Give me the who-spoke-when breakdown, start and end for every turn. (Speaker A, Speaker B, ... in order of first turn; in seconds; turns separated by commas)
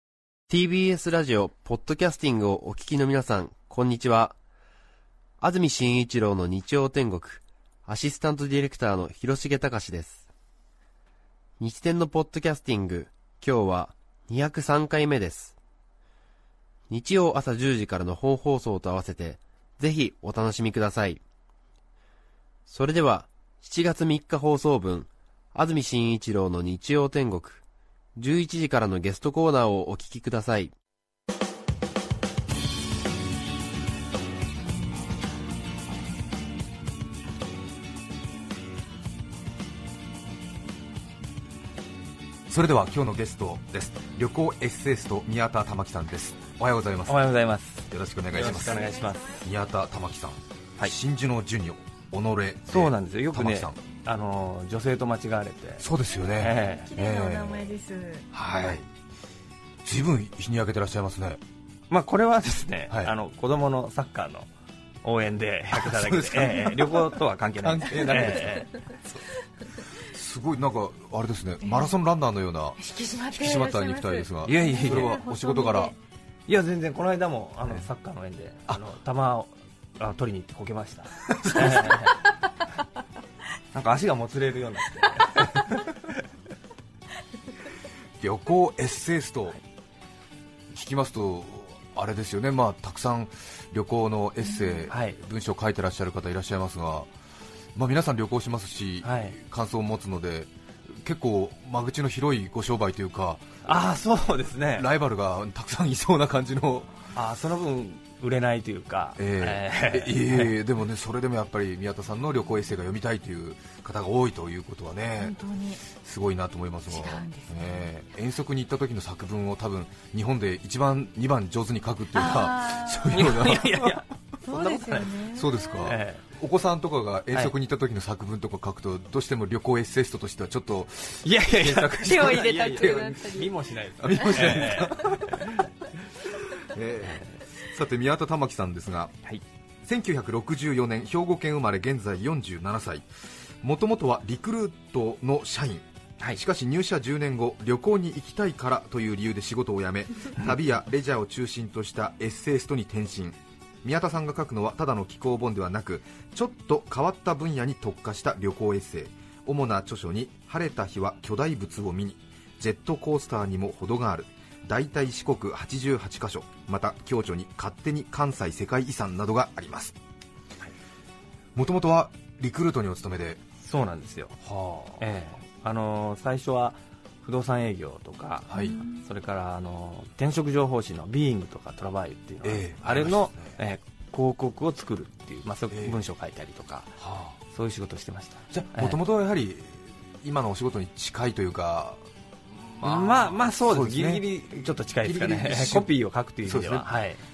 Speaker A: 0.5-4.4, Speaker A: 5.4-10.2, Speaker A: 11.6-15.6, Speaker A: 16.9-21.2, Speaker A: 22.7-27.6, Speaker A: 28.2-30.7, Speaker B: 42.5-47.3, Speaker C: 47.1-49.4, Speaker B: 47.9-53.8, Speaker D: 48.4-49.5, Speaker C: 52.7-56.9, Speaker B: 55.8-57.7, Speaker D: 56.4-58.3, Speaker B: 58.3-58.9, Speaker B: 59.8-61.4, Speaker C: 61.9-64.5, Speaker C: 65.0-68.7, Speaker B: 65.7-69.2, Speaker D: 68.3-68.7, Speaker B: 69.9-75.9, Speaker D: 71.6-71.9, Speaker D: 72.8-76.0, Speaker C: 74.5-75.2, Speaker C: 76.5-82.2, Speaker B: 81.3-82.1, Speaker C: 83.7-85.9, Speaker B: 88.2-89.6, Speaker B: 90.7-97.1, Speaker C: 94.9-95.2, Speaker B: 97.8-103.7, Speaker C: 99.0-99.4, Speaker C: 103.7-104.9, Speaker B: 104.7-107.0, Speaker C: 107.2-110.5, Speaker B: 109.2-124.0, Speaker D: 115.2-115.8, Speaker D: 116.9-117.9, Speaker D: 122.1-123.3, Speaker C: 123.1-125.1, Speaker D: 124.4-125.8, Speaker B: 125.3-133.3, Speaker C: 125.8-126.2, Speaker C: 131.2-135.7, Speaker D: 132.0-133.6, Speaker B: 134.0-135.5, Speaker B: 136.3-139.2, Speaker C: 137.0-137.4, Speaker B: 139.8-143.1, Speaker B: 143.6-170.0, Speaker B: 171.6-173.4, Speaker C: 173.6-174.4, Speaker B: 174.4-175.0, Speaker C: 175.0-187.0, Speaker B: 178.5-178.8, Speaker D: 178.5-179.1, Speaker B: 182.4-183.6, Speaker B: 185.7-186.0, Speaker B: 187.0-187.4, Speaker C: 187.5-189.0, Speaker B: 188.5-195.9, Speaker C: 192.8-197.2, Speaker B: 196.4-196.9